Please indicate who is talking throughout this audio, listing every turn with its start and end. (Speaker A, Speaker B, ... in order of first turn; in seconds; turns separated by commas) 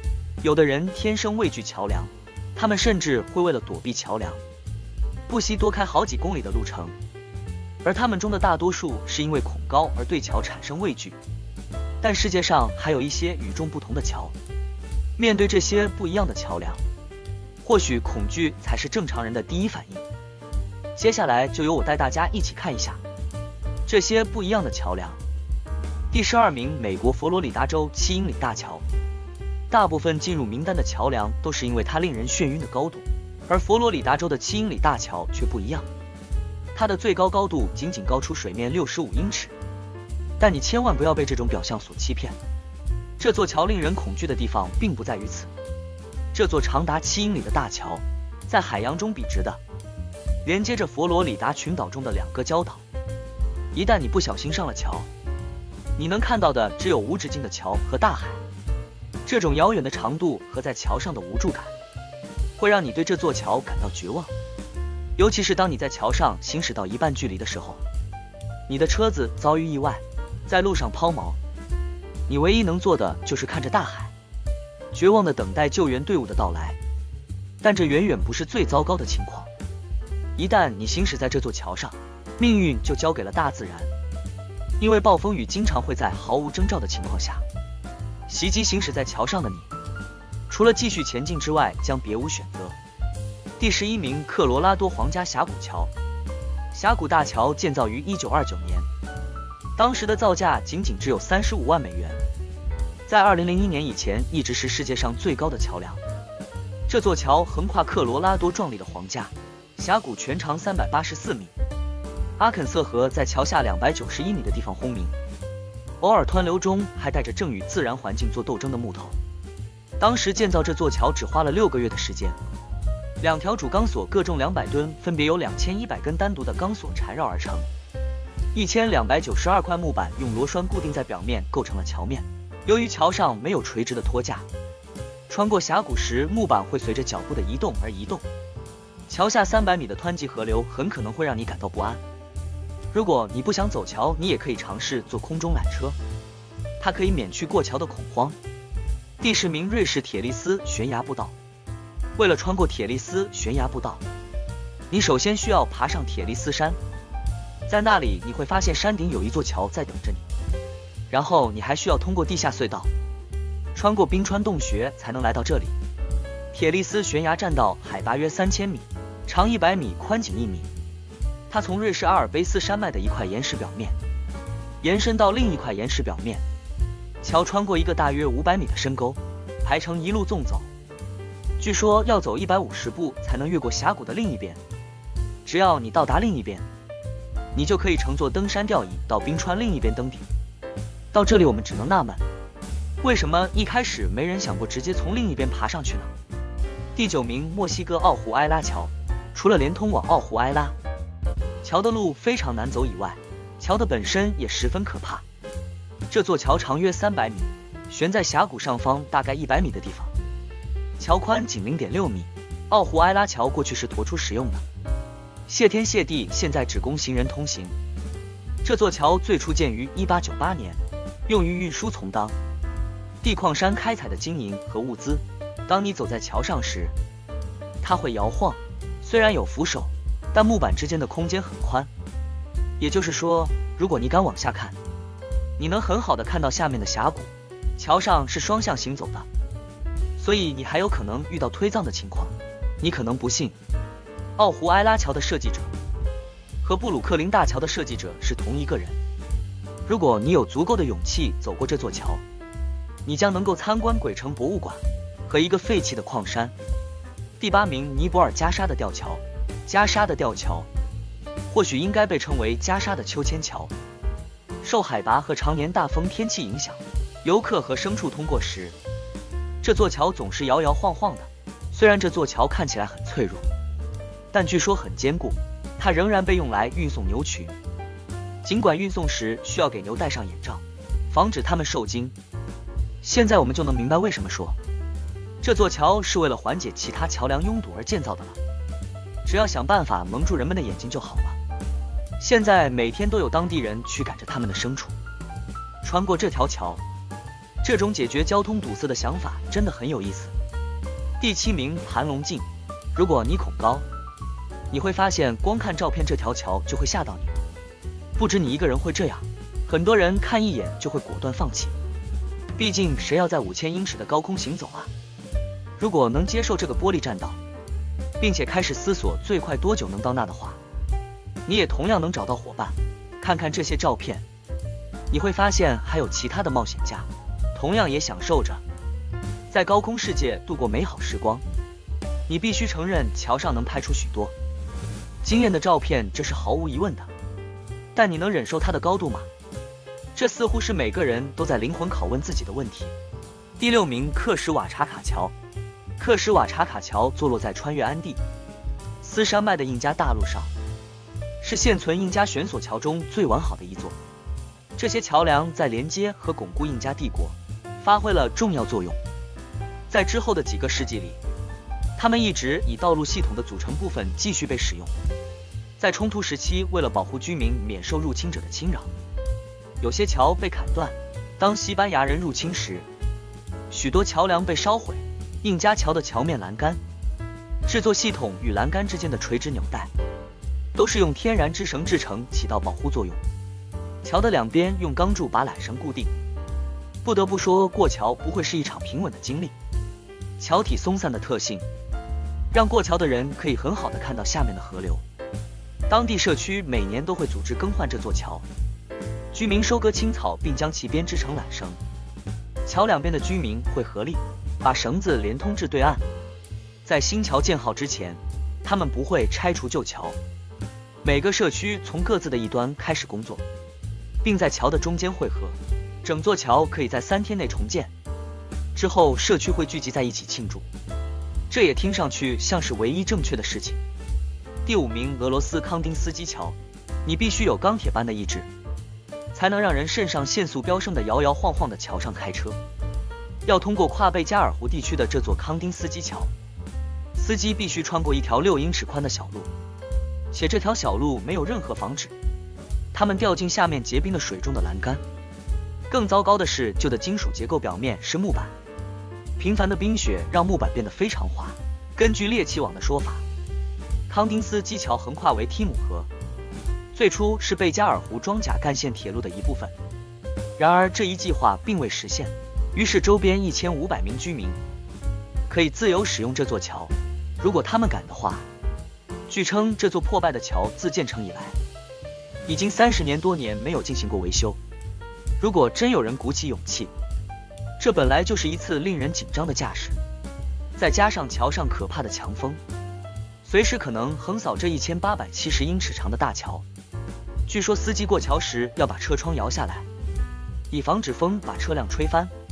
Speaker A: 0.4-4.4, Speaker A: 5.3-7.0, Speaker A: 7.8-11.2, Speaker A: 12.0-14.3, Speaker A: 15.2-16.8, Speaker A: 17.6-20.0, Speaker A: 20.9-23.0, Speaker A: 23.9-25.2, Speaker A: 26.1-28.8, Speaker A: 29.7-35.9, Speaker A: 36.7-39.5, Speaker A: 40.4-42.4, Speaker A: 43.2-45.5, Speaker A: 46.3-49.6, Speaker A: 50.4-52.8, Speaker A: 53.7-55.1, Speaker A: 56.0-58.4, Speaker A: 59.2-61.7, Speaker A: 62.6-64.3, Speaker A: 65.2-67.8, Speaker A: 68.7-71.4, Speaker A: 72.3-74.1, Speaker A: 74.9-76.8, Speaker A: 77.6-79.5, Speaker A: 80.4-83.9, Speaker A: 84.8-87.4, Speaker A: 88.3-89.7, Speaker A: 90.5-92.8, Speaker A: 93.6-95.9, Speaker A: 96.7-98.9, Speaker A: 99.8-102.2, Speaker A: 103.1-106.0, Speaker A: 106.9-111.5, Speaker A: 112.4-115.1, Speaker A: 116.0-119.2, Speaker A: 120.0-122.4, Speaker A: 123.2-127.7, Speaker A: 128.5-134.4, Speaker A: 135.3-138.2, Speaker A: 139.1-142.0, Speaker A: 142.9-146.0, Speaker A: 146.8-148.4, Speaker A: 149.2-151.3, Speaker A: 152.2-154.0, Speaker A: 154.9-156.8, Speaker A: 157.7-160.2, Speaker A: 161.1-162.9, Speaker A: 163.7-165.7, Speaker A: 166.5-170.7, Speaker A: 171.5-173.9, Speaker A: 174.8-176.4, Speaker A: 177.2-180.7, Speaker A: 181.6-184.6, Speaker A: 185.4-186.7, Speaker A: 187.5-190.2, Speaker A: 191.1-192.2, Speaker A: 193.0-196.1, Speaker A: 196.9-200.8, Speaker A: 201.6-205.2, Speaker A: 206.1-210.1, Speaker A: 211.0-214.6, Speaker A: 215.5-217.7, Speaker A: 218.6-222.3, Speaker A: 223.2-226.9, Speaker A: 227.8-231.9, Speaker A: 232.8-234.8, Speaker A: 235.6-239.3, Speaker A: 240.2-243.6, Speaker A: 244.4-245.7, Speaker A: 246.6-249.0, Speaker A: 249.8-252.2, Speaker A: 253.0-256.5, Speaker A: 257.4-260.7, Speaker A: 261.5-263.7, Speaker A: 264.6-268.8, Speaker A: 269.6-273.4, Speaker A: 274.3-277.6, Speaker A: 278.4-282.1, Speaker A: 283.0-284.6, Speaker A: 285.4-288.4, Speaker A: 289.2-291.4, Speaker A: 292.2-294.9, Speaker A: 295.8-296.8, Speaker A: 297.6-300.3, Speaker A: 301.2-303.8, Speaker A: 304.7-307.4, Speaker A: 308.1-311.7, Speaker A: 312.6-314.9, Speaker A: 315.8-317.4, Speaker A: 318.2-320.6, Speaker A: 321.4-324.2, Speaker A: 325.1-328.6, Speaker A: 329.5-331.4, Speaker A: 332.3-334.3, Speaker A: 335.2-337.1, Speaker A: 337.9-339.3, Speaker A: 340.1-342.9, Speaker A: 343.6-345.3, Speaker A: 346.0-348.2, Speaker A: 349.0-350.5, Speaker A: 351.4-354.0, Speaker A: 354.8-359.0, Speaker A: 359.9-361.2, Speaker A: 362.0-364.9, Speaker A: 365.8-368.9, Speaker A: 369.8-372.9, Speaker A: 373.7-376.8, Speaker A: 377.6-379.9, Speaker A: 380.7-383.2, Speaker A: 384.0-386.1, Speaker A: 387.0-389.5, Speaker A: 390.4-391.6, Speaker A: 392.5-395.0, Speaker A: 395.9-398.4, Speaker A: 399.3-401.8, Speaker A: 402.6-406.0, Speaker A: 406.8-410.2, Speaker A: 411.0-413.4, Speaker A: 414.2-417.9, Speaker A: 418.7-420.6, Speaker A: 421.5-423.8, Speaker A: 424.6-428.5, Speaker A: 429.3-432.6, Speaker A: 433.4-436.3, Speaker A: 437.1-439.5, Speaker A: 440.3-442.1, Speaker A: 442.9-445.0, Speaker A: 445.9-448.5, Speaker A: 449.4-453.2, Speaker A: 454.1-456.1, Speaker A: 456.9-459.7, Speaker A: 460.6-464.6, Speaker A: 465.5-468.4, Speaker A: 469.3-471.6, Speaker A: 472.4-474.6, Speaker A: 475.4-476.9, Speaker A: 477.8-480.0, Speaker A: 480.8-482.6, Speaker A: 483.4-486.6, Speaker A: 487.5-489.9, Speaker A: 490.7-492.3